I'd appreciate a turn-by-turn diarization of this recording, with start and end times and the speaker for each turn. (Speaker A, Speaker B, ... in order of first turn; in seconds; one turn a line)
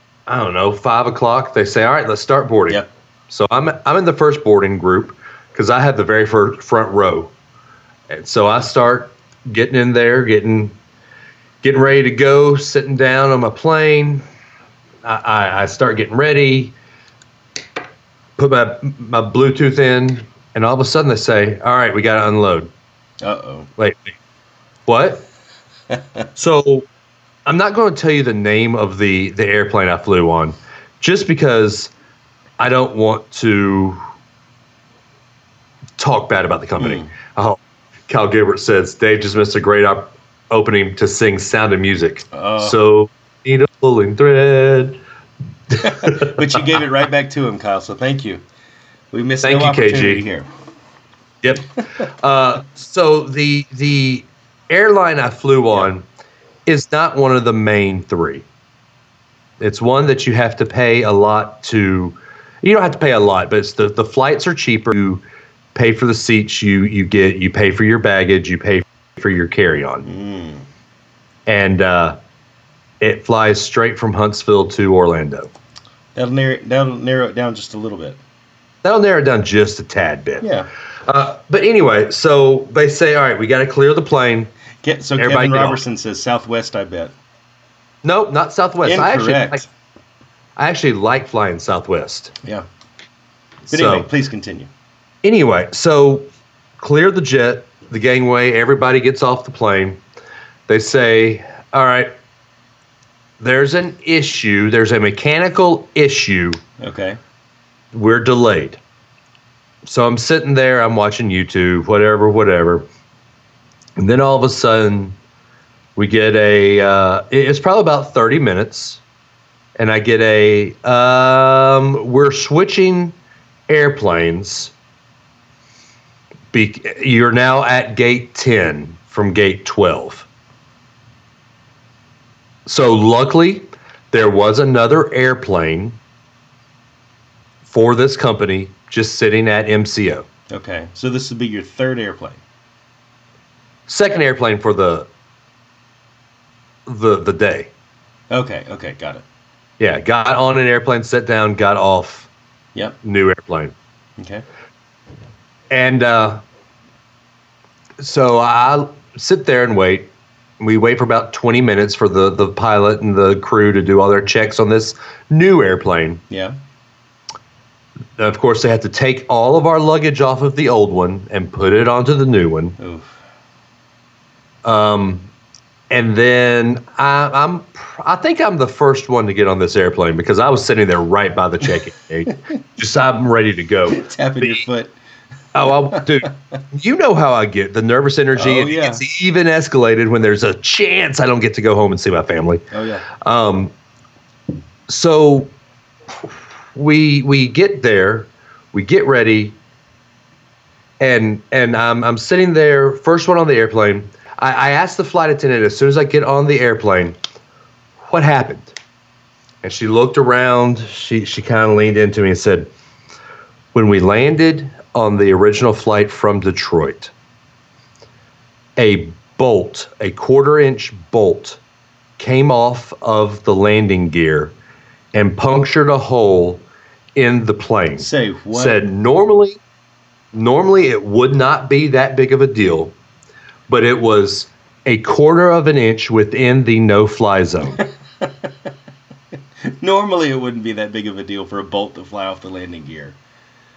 Speaker A: 0.3-7.3
Speaker A: 8.1-10.8
Speaker A: 11.6-14.2
Speaker A: 15.0-16.8
Speaker A: 18.4-22.7
Speaker B: 23.2-23.7
Speaker A: 23.8-24.1
Speaker A: 24.9-25.3
Speaker A: 26.4-26.9
Speaker A: 27.5-31.9
Speaker A: 32.6-34.0
Speaker A: 36.0-45.0
Speaker B: 36.8-37.1
Speaker B: 42.3-42.8
Speaker A: 45.7-46.4
Speaker B: 45.8-48.4
Speaker B: 49.1-50.5
Speaker A: 49.4-50.2
Speaker A: 51.4-56.0
Speaker A: 56.6-58.4
Speaker A: 59.6-65.2
Speaker A: 65.8-70.0
Speaker B: 70.0-70.7
Speaker A: 71.5-72.2
Speaker A: 73.0-75.5
Speaker B: 76.1-78.2
Speaker A: 78.8-80.5
Speaker B: 80.4-80.7
Speaker A: 81.0-84.5
Speaker B: 84.8-87.1
Speaker A: 85.2-85.8
Speaker A: 88.0-89.6
Speaker B: 88.8-89.7
Speaker A: 90.5-92.3
Speaker B: 93.7-94.7
Speaker A: 93.7-94.1
Speaker A: 95.2-96.3
Speaker A: 96.8-100.0
Speaker A: 100.7-102.1
Speaker A: 103.4-106.6
Speaker B: 106.8-107.2
Speaker A: 107.9-108.8
Speaker A: 109.8-112.9
Speaker A: 114.0-115.2
Speaker A: 116.0-119.0
Speaker A: 119.8-123.1
Speaker A: 123.7-124.7
Speaker A: 126.5-130.3
Speaker A: 132.7-136.0
Speaker A: 137.7-140.3
Speaker B: 140.5-142.4
Speaker A: 143.9-145.1
Speaker A: 146.9-147.7
Speaker B: 148.3-149.2
Speaker A: 149.8-152.3
Speaker A: 153.0-153.7
Speaker B: 154.2-154.4
Speaker A: 155.7-156.4
Speaker A: 158.0-160.1
Speaker A: 160.6-166.2
Speaker B: 166.3-166.6
Speaker A: 168.2-172.8
Speaker B: 172.8-173.1
Speaker A: 174.6-175.3
Speaker A: 175.9-184.6
Speaker B: 183.9-184.9
Speaker A: 185.5-193.7
Speaker B: 185.8-186.3
Speaker B: 188.3-189.0
Speaker B: 192.7-193.0
Speaker A: 194.9-195.5
Speaker A: 196.7-199.6
Speaker A: 201.0-207.2
Speaker A: 208.0-208.8
Speaker A: 209.6-212.7
Speaker A: 213.7-217.1
Speaker A: 218.8-221.6
Speaker A: 222.2-224.5
Speaker A: 225.1-229.6
Speaker B: 228.0-228.8
Speaker A: 230.3-232.9
Speaker A: 233.7-237.8
Speaker B: 238.2-238.5
Speaker B: 239.6-243.2